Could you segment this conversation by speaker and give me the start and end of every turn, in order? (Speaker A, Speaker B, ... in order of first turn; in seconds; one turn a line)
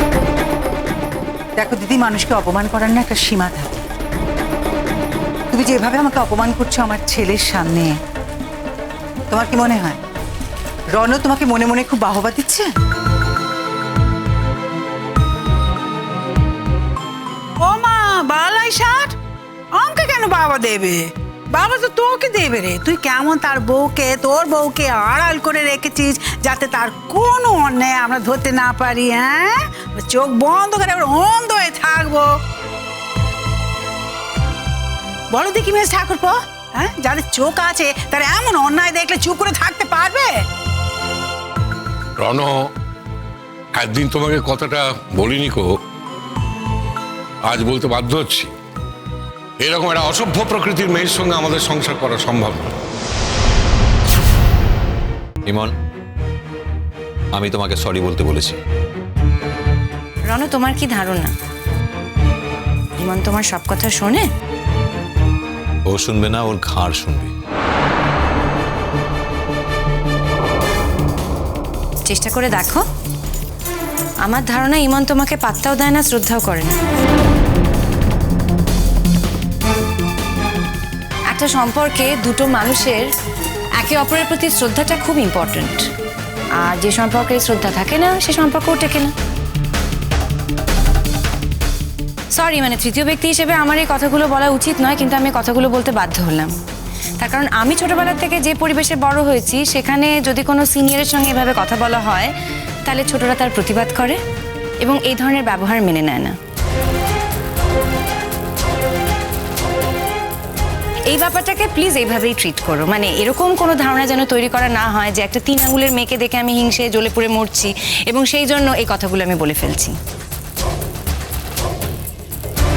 Speaker A: 1.6-3.8
Speaker A: 5.5-7.9
Speaker A: 9.3-10.0
Speaker A: 11.0-12.7
Speaker B: 17.6-19.1
Speaker B: 19.8-32.3
Speaker B: 35.3-40.3
Speaker C: 43.8-45.7
Speaker C: 47.5-48.5
Speaker C: 49.7-52.6
Speaker D: 55.5-55.7
Speaker D: 57.3-58.6
Speaker E: 60.3-61.3
Speaker E: 63.0-64.3
Speaker D: 65.9-67.3
Speaker E: 72.0-72.8
Speaker E: 74.2-76.8
Speaker E: 81.3-83.1
Speaker E: 83.8-85.8
Speaker E: 86.6-89.1
Speaker E: 92.3-96.5
Speaker E: 97.2-102.3
Speaker E: 102.9-104.2
Speaker E: 104.8-106.4
Speaker E: 111.1-120.0